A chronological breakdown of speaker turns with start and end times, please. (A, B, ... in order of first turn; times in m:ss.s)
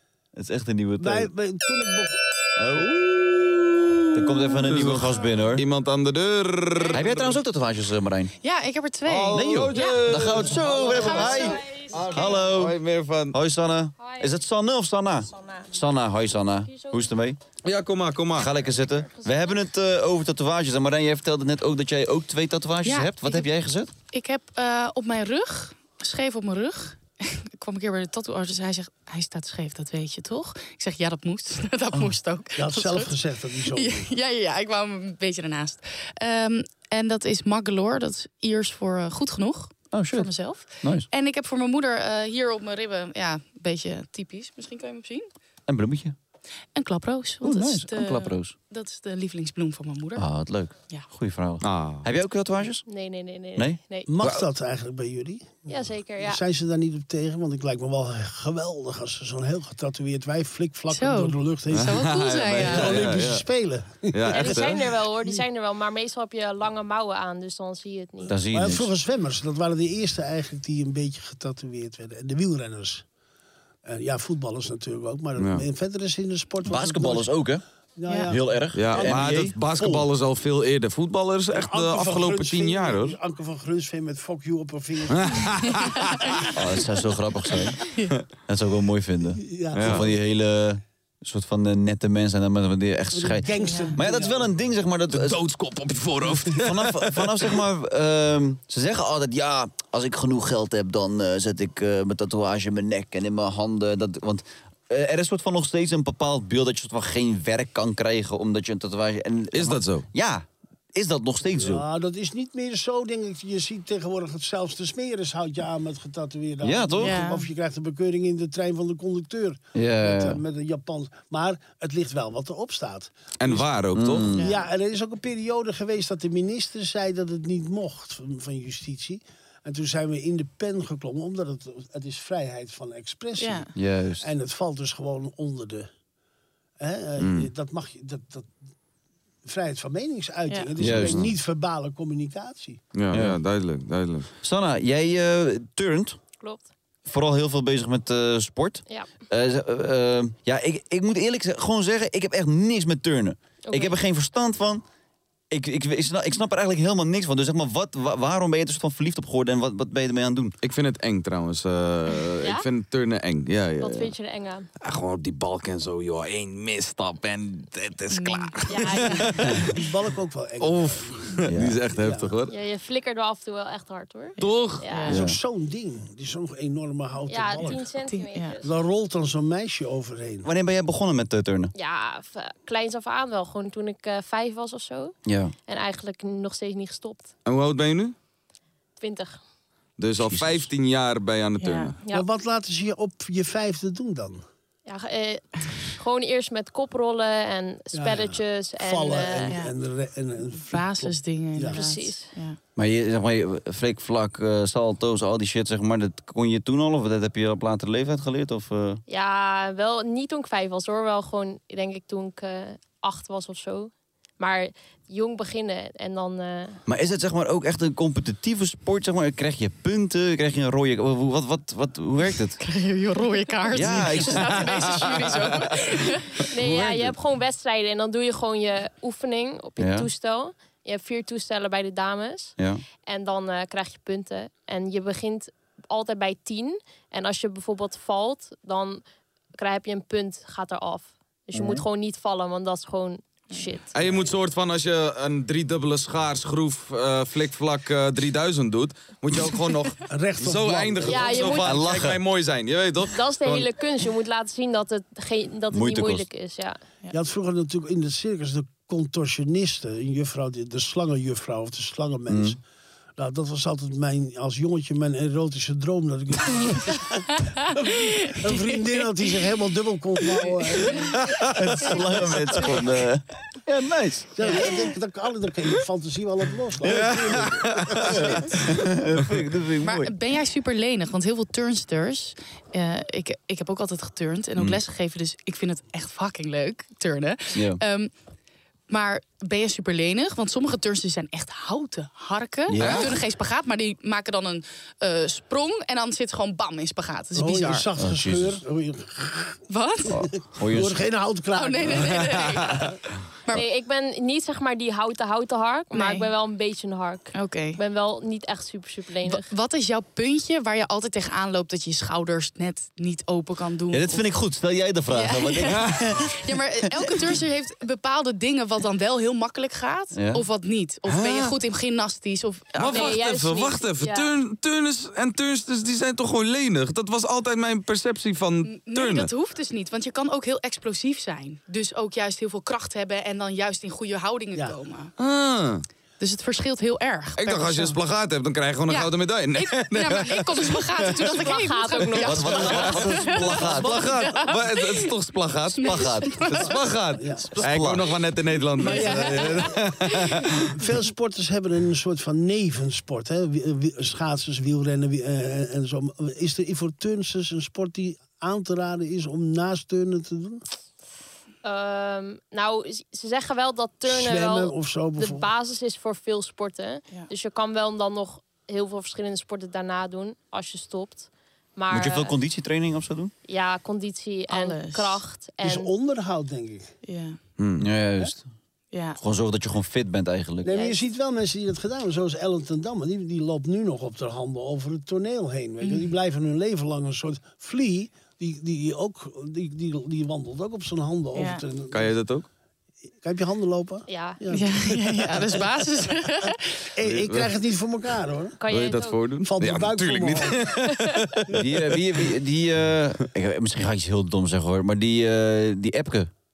0:00.3-0:01.3 A
0:01.0-0:02.2 B
0:02.6-0:03.0 A
0:02.9-0:07.4 C
0:04.1-0:05.6 A
0:06.9-0:08.3 A
0:08.4-0:10.0 D
0:09.0-0:13.4 C
0:09.3-0:12.8 A
0:10.9-0:11.5 D
0:11.3-0:12.0 E
0:13.3-0:17.4 A
0:14.0-0:14.3 E
0:16.7-0:17.0 E
0:17.6-0:18.5 C
0:18.3-0:23.9 A
0:18.8-0:19.5 E
0:22.8-0:23.5 D
0:24.1-0:33.2 D
0:32.6-0:34.1 B
0:33.7-0:45.3 D
0:39.9-0:41.1 A
0:45.7-0:46.1 A
0:46.7-0:50.3 D
0:47.4-0:48.5 A
0:50.2-0:52.8 A
0:51.6-0:52.1 C
0:52.8-0:54.2 E
0:53.6-0:54.4 A
0:54.1-1:05.4 B
0:55.7-0:56.4 E
1:00.9-1:03.1 D
1:01.7-1:03.4 C
1:04.1-1:04.9 C
1:04.3-1:08.4 E
1:08.2-1:08.9 A
1:08.5-1:13.0 B
1:13.8-1:17.3 B
1:15.4-1:15.6 C
1:16.6-1:17.6 A
1:18.0-1:19.2 B
1:18.1-1:18.3 D
1:18.3-1:19.6 A
1:18.7-1:23.2 C
1:19.8-1:20.0 B
1:21.5-1:25.6 B
1:25.1-1:26.4 C
1:26.5-1:35.4 A
1:27.8-1:28.1 D
1:29.4-1:30.1 B
1:29.7-1:30.0 C
1:33.1-1:34.5 B
1:33.6-1:34.0 D
1:35.1-1:37.5 C
1:36.5-1:51.8 A
1:49.5-1:50.0 C
1:51.5-2:03.6 B
1:56.6-1:57.2 A
1:57.0-1:57.4 D
1:59.7-2:00.4 A
2:03.4-2:04.3 C
2:03.9-2:04.5 A
2:04.3-2:04.6 D
2:04.4-2:15.9 B
2:13.4-2:13.7 D
2:13.7-2:14.3 A
2:16.8-2:18.5 B
2:17.2-2:17.5 C
2:19.4-2:22.8 B
2:20.8-2:21.3 A
2:21.0-2:21.3 C
2:22.9-2:24.3 C
2:23.1-2:23.4 A
2:24.4-2:26.2 A
2:27.0-2:34.8 A
2:33.6-2:34.0 E
2:35.5-2:40.6 A
2:40.6-2:44.1 C
2:42.4-2:42.7 E
2:43.8-2:44.7 E
2:44.8-2:49.9 C
2:48.1-2:49.2 D
2:48.7-2:49.5 E
2:49.5-2:51.3 B
2:50.6-2:52.5 C
2:51.5-2:51.8 A
2:52.0-2:52.3 B
2:52.5-2:55.2 E
2:54.4-2:55.2 D
2:54.4-2:54.8 C
2:55.1-2:57.8 B
2:55.1-2:55.4 A
2:57.3-2:58.7 E
2:58.0-2:58.6 D
2:58.6-3:00.5 B
3:00.4-3:01.7 A
3:01.7-3:05.2 E
3:05.2-3:05.5 A
3:05.7-3:07.3 E
3:07.4-3:08.1 C
3:09.0-3:09.4 E
3:10.0-3:12.0 C
3:10.2-3:10.7 A
3:11.6-3:11.9 D
3:12.1-3:14.4 B
3:14.8-3:19.6 E
3:17.9-3:21.8 B
3:19.4-3:19.7 D
3:20.5-3:22.6 D
3:21.7-3:22.3 E
3:22.8-3:29.0 A
3:29.1-3:36.8 E
3:36.8-3:42.6 A
3:42.6-3:46.4 D
3:43.7-3:44.6 A
3:45.0-3:45.4 C
3:46.5-3:52.5 E
3:46.7-3:47.1 A
3:49.8-3:50.1 A
3:52.6-3:52.8 A
3:53.1-3:59.0 E
3:59.6-4:04.2 E
4:01.5-4:01.8 A
4:03.9-4:13.7 C
4:10.1-4:11.6 B
4:11.1-4:11.8 E
4:11.6-4:12.2 A
4:13.0-4:16.8 E
4:15.7-4:16.3 A
4:17.1-4:22.6 B
4:22.3-4:22.6 A
4:23.2-4:32.4 B
4:28.3-4:28.7 D
4:30.8-4:31.2 D
4:31.5-4:34.6 A
4:34.4-4:38.5 B
4:34.4-4:34.7 D
4:36.8-4:40.1 A
4:36.8-4:38.3 C
4:39.8-4:48.1 D
4:47.5-4:47.8 A
4:48.9-4:57.9 D
4:52.7-4:53.1 A
4:52.8-4:53.1 C
4:57.4-4:59.6 B
4:58.0-4:58.6 A
4:59.7-5:00.2 D
5:00.1-5:01.0 A
5:00.1-5:02.7 B
5:01.5-5:02.9 D
5:03.5-5:09.5 E
5:05.9-5:06.3 D
5:07.3-5:07.8 D
5:09.2-5:14.2 D
5:13.9-5:16.8 A
5:15.1-5:23.2 D
5:20.1-5:20.4 A
5:21.1-5:21.5 C
5:22.7-5:29.3 C
5:22.9-5:24.3 E
5:28.6-5:35.1 D
5:35.2-5:35.8 C
5:36.2-5:38.0 D
5:37.4-5:41.3 C
5:38.9-5:45.1 D
5:41.2-5:43.1 E
5:42.2-5:44.1 A
5:42.4-5:50.7 C
5:45.7-5:46.8 D
5:45.8-5:46.5 A
5:46.6-5:47.5 B
5:47.6-5:48.0 A
5:48.8-5:49.8 B
5:48.8-5:50.5 D
5:50.6-6:00.6 B
6:01.6-6:12.4 E
6:04.0-6:05.5 B
6:11.9-6:13.3 A
6:13.5-6:15.9 E
6:14.5-6:15.2 D
6:15.6-6:16.9 B
6:17.0-6:17.4 D
6:17.6-6:17.9 C
6:17.7-6:18.5 A
6:18.9-6:19.2 D
6:19.2-6:20.8 A
6:20.6-6:32.1 B
6:20.7-6:21.0 E
6:25.8-6:26.0 D
6:31.3-6:31.6 D
6:31.9-6:32.5 C
6:33.2-6:35.6 B
6:34.1-6:34.4 E
6:34.5-6:36.8 D
6:36.9-6:38.6 B
6:37.0-6:37.5 C
6:38.6-6:39.3 E
6:38.7-6:42.2 C
6:39.4-6:40.7 B
6:40.7-6:41.4 E
6:41.5-6:46.3 A